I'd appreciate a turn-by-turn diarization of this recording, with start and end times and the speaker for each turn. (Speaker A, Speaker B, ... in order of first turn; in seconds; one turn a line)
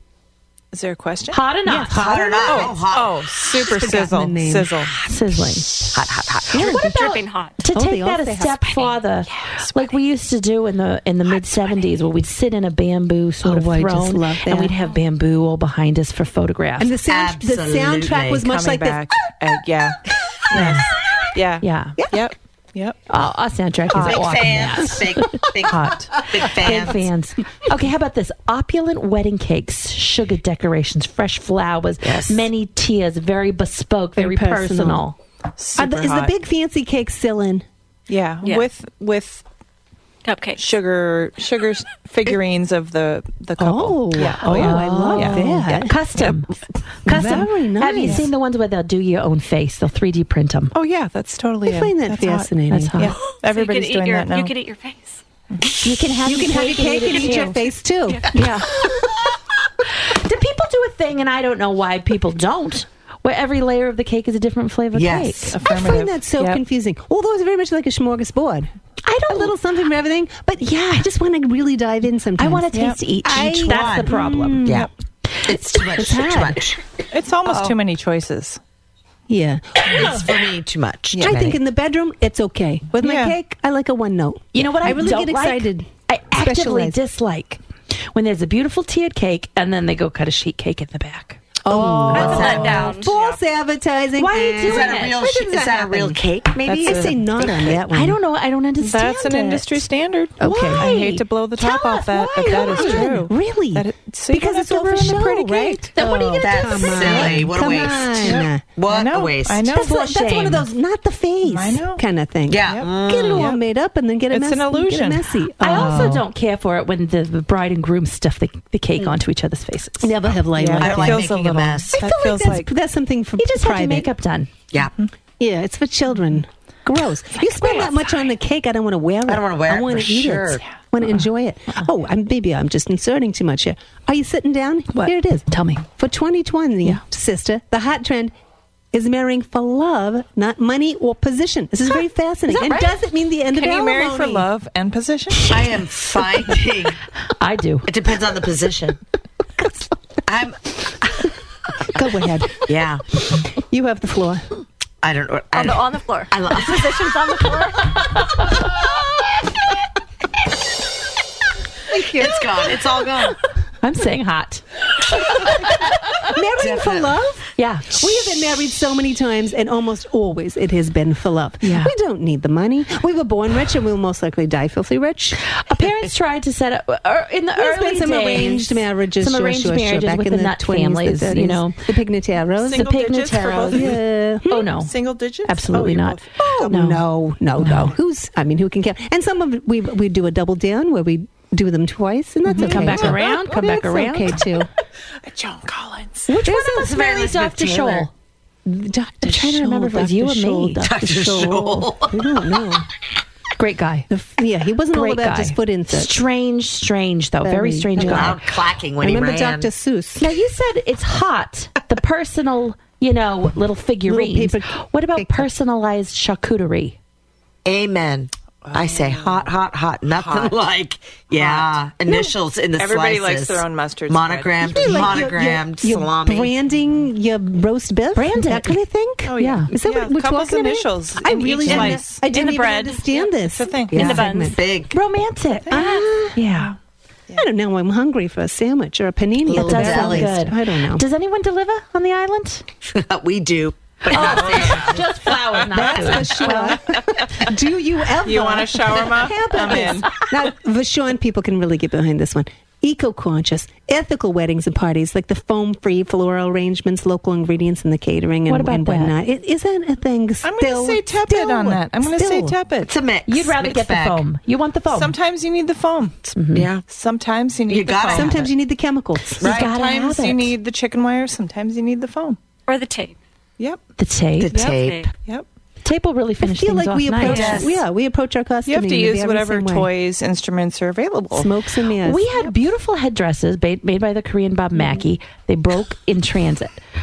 Speaker A: 0.7-1.4
Speaker B: 1.3-2.6
Speaker C: 1.6-2.7
Speaker D: 1.9-3.2
Speaker A: 2.4-5.1
Speaker C: 3.6-4.7
Speaker B: 5.1-6.0
Speaker D: 5.9-6.8
Speaker E: 6.5-7.6
Speaker C: 6.5-8.8
Speaker B: 7.6-17.0
Speaker C: 13.4-14.8
Speaker C: 16.8-19.0
Speaker D: 17.1-18.4
Speaker A: 18.4-23.0
Speaker B: 20.5-20.9
Speaker B: 21.6-22.0
Speaker B: 23.1-35.2
Speaker D: 23.9-27.1
Speaker A: 25.7-26.1
Speaker D: 32.0-32.5
Speaker C: 34.1-35.0
Speaker A: 35.6-36.3
Speaker C: 35.8-37.6
Speaker A: 38.1-39.4
Speaker E: 40.2-40.7
Speaker A: 40.6-45.6
Speaker C: 43.6-46.0
Speaker B: 44.5-50.7
Speaker C: 47.0-48.3
Speaker A: 50.7-54.5
Speaker C: 51.6-53.1
Speaker B: 52.7-53.2
Speaker E: 53.2-55.2
Speaker B: 55.8-57.7
Speaker C: 56.2-59.1
Speaker B: 58.3-58.7
Speaker B: 60.0-65.6
Speaker D: 64.9-65.5
Speaker A: 65.5-66.6
Speaker C: 65.6-68.7
Speaker B: 69.0-69.5
Speaker C: 69.3-74.9
Speaker B: 72.4-74.7
Speaker D: 73.2-74.9
Speaker D: 75.5-76.8
Speaker C: 75.8-76.6
Speaker A: 77.1-78.6
Speaker D: 77.4-77.8
Speaker C: 79.3-80.2
Speaker D: 79.8-81.6
Speaker C: 81.2-87.0
Speaker A: 83.0-83.3
Speaker B: 84.5-87.6
Speaker B: 88.1-93.0
Speaker C: 91.6-98.2
Speaker D: 92.1-93.0
Speaker E: 92.3-93.3
Speaker B: 94.2-95.2
Speaker D: 94.6-97.8
Speaker A: 96.8-97.2
Speaker B: 97.9-99.9
Speaker A: 98.8-105.9
Speaker C: 100.4-100.9
Speaker B: 100.4-101.2
Speaker C: 101.6-108.6
Speaker B: 102.6-103.1
Speaker B: 106.0-107.4
Speaker D: 106.4-109.7
Speaker A: 107.1-107.4
Speaker A: 108.2-110.0
Speaker B: 109.7-110.7
Speaker C: 109.7-116.2
Speaker A: 111.4-112.0
Speaker D: 112.5-113.5
Speaker A: 112.6-113.6
Speaker A: 114.3-116.1
Speaker B: 115.6-120.2
Speaker C: 120.0-121.3
Speaker A: 120.5-122.7
Speaker D: 120.8-121.9
Speaker C: 121.9-124.1
Speaker B: 123.4-124.5
Speaker C: 125.4-138.3
Speaker A: 127.6-128.0
Speaker D: 129.3-130.6
Speaker B: 134.9-135.8
Speaker C: 138.9-144.5
Speaker B: 142.5-143.0
Speaker A: 143.5-145.5
Speaker D: 145.5-147.0
Speaker B: 147.4-147.9
Speaker D: 147.9-149.0
Speaker D: 150.2-151.3
Speaker C: 151.9-152.7
Speaker D: 152.7-153.1
Speaker C: 153.5-154.4
Speaker D: 155.0-157.2
Speaker E: 155.5-158.2
Speaker C: 161.9-162.7
Speaker D: 162.1-163.4
Speaker B: 163.8-164.6
Speaker C: 165.3-165.6
Speaker C: 166.2-175.4
Speaker D: 166.6-167.1
Speaker B: 167.6-168.0
Speaker B: 171.6-171.9
Speaker B: 175.4-181.8
Speaker C: 177.5-182.9
Speaker A: 182.6-184.0
Speaker B: 182.6-184.0
Speaker C: 183.7-184.7
Speaker B: 184.5-184.9
Speaker A: 184.6-186.7
Speaker B: 185.4-187.0
Speaker C: 186.4-194.7
Speaker B: 187.6-187.9
Speaker A: 192.5-193.2
Speaker B: 192.5-194.4
Speaker A: 195.2-196.3
Speaker B: 196.3-198.1
Speaker C: 196.4-197.0
Speaker D: 196.7-198.1
Speaker C: 198.7-202.9
Speaker B: 199.2-201.8
Speaker D: 200.8-202.4
Speaker B: 203.6-204.1
Speaker C: 204.1-206.1
Speaker B: 204.9-208.4
Speaker C: 207.4-210.3
Speaker D: 208.0-209.7
Speaker B: 210.2-217.0
Speaker C: 214.0-215.5
Speaker D: 217.6-226.5
Speaker A: 218.6-219.5
Speaker A: 220.1-220.6
Speaker A: 221.3-225.2
Speaker C: 224.6-234.6
Speaker B: 228.1-228.8
Speaker A: 229.2-232.6
Speaker B: 229.3-229.7
Speaker E: 232.3-233.1
Speaker A: 233.4-234.3
Speaker D: 233.9-235.0
Speaker E: 233.9-234.6
Speaker B: 234.9-236.8
Speaker C: 235.7-236.4
Speaker E: 235.7-236.0
Speaker C: 237.4-241.0
Speaker D: 239.4-240.4
Speaker B: 239.4-242.6
Speaker D: 242.8-245.1
Speaker B: 244.1-246.7
Speaker A: 244.3-244.7
Speaker C: 245.6-262.6
Speaker A: 246.1-247.4
Speaker A: 248.2-250.2
Speaker B: 258.5-259.1
Speaker A: 260.4-262.9
Speaker D: 262.8-264.2
Speaker B: 263.3-265.1
Speaker A: 264.9-266.3
Speaker B: 266.3-266.7
Speaker D: 266.5-266.8
Speaker A: 266.9-268.5
Speaker D: 267.7-268.5
Speaker C: 268.1-269.4
Speaker B: 269.4-270.5
Speaker D: 269.4-269.7
Speaker A: 269.4-272.4
Speaker E: 272.7-273.1
Speaker B: 274.0-274.7
Speaker D: 274.4-275.0
Speaker A: 274.5-275.4
Speaker E: 274.5-275.1
Speaker B: 275.8-277.8
Speaker C: 276.4-279.9
Speaker D: 277.2-277.8
Speaker E: 277.3-277.6
Speaker A: 278.7-281.5
Speaker C: 281.3-282.3
Speaker B: 282.0-286.8